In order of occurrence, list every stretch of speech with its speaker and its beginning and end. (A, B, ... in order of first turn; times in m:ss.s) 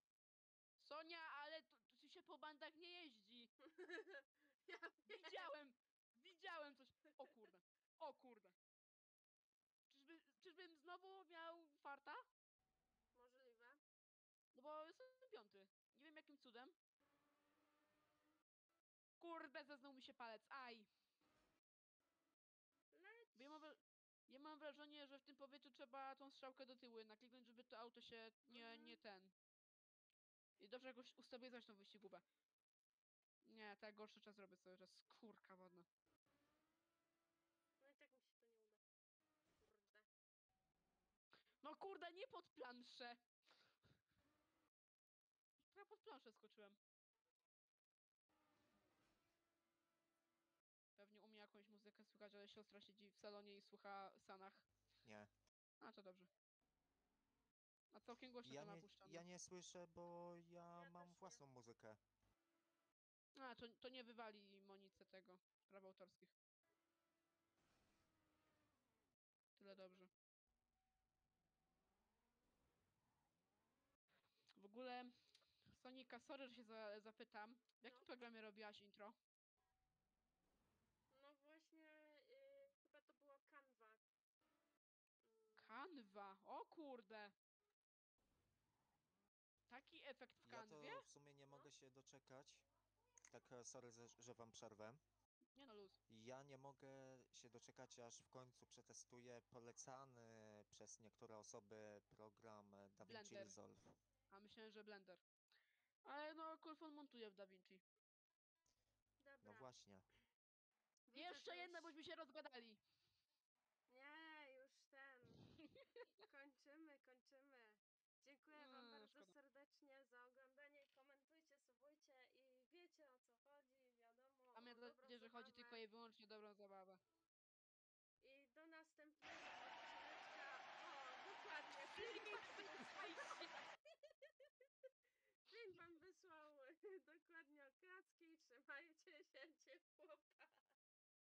0:00.8-0:03.5 A
0:03.6-0:05.5 B
0:05.1-0:08.6 A
0:09.9-0:12.2 A
0:13.1-0:13.8 B
0:14.6-0:16.7 A
0:19.2-0:20.9 A
0:22.9-0:23.6 B
0:23.4-0:29.3 A
0:28.5-0:29.0 B
0:30.6-0:32.2 A
0:33.4-0:35.9 A
0:37.8-0:38.8 B
0:39.6-0:40.1 B
0:41.6-0:43.2 A
0:45.7-0:46.8 A
0:51.0-0:54.7 A
0:55.0-0:55.3 C
0:55.8-0:56.3 A
0:57.9-0:59.2 A
0:58.4-1:02.0 C
1:00.8-1:01.4 B
1:03.4-1:06.3 A
1:09.6-1:10.1 A
1:09.6-1:10.1 B
1:14.6-1:15.1 A
1:15.7-1:19.2 A
1:21.1-1:24.0 B
1:25.2-1:25.7 B
1:25.6-1:27.4 A
1:29.7-1:31.1 A
1:30.4-1:32.6 C
1:33.3-1:35.0 C
1:35.6-1:36.0 A
1:36.1-1:44.0 C
1:43.0-1:43.6 A
1:44.3-1:45.2 A
1:46.0-1:47.8 A
1:49.2-1:49.7 B
1:49.4-1:50.1 C
1:51.1-1:51.9 B
1:51.1-1:52.8 A
1:53.9-1:55.5 B
1:55.4-1:55.9 A
1:56.2-2:05.8 B
1:58.6-1:59.3 A
2:04.6-2:07.0 A
2:08.2-2:14.3 B
2:11.9-2:13.6 A
2:15.5-2:20.6 B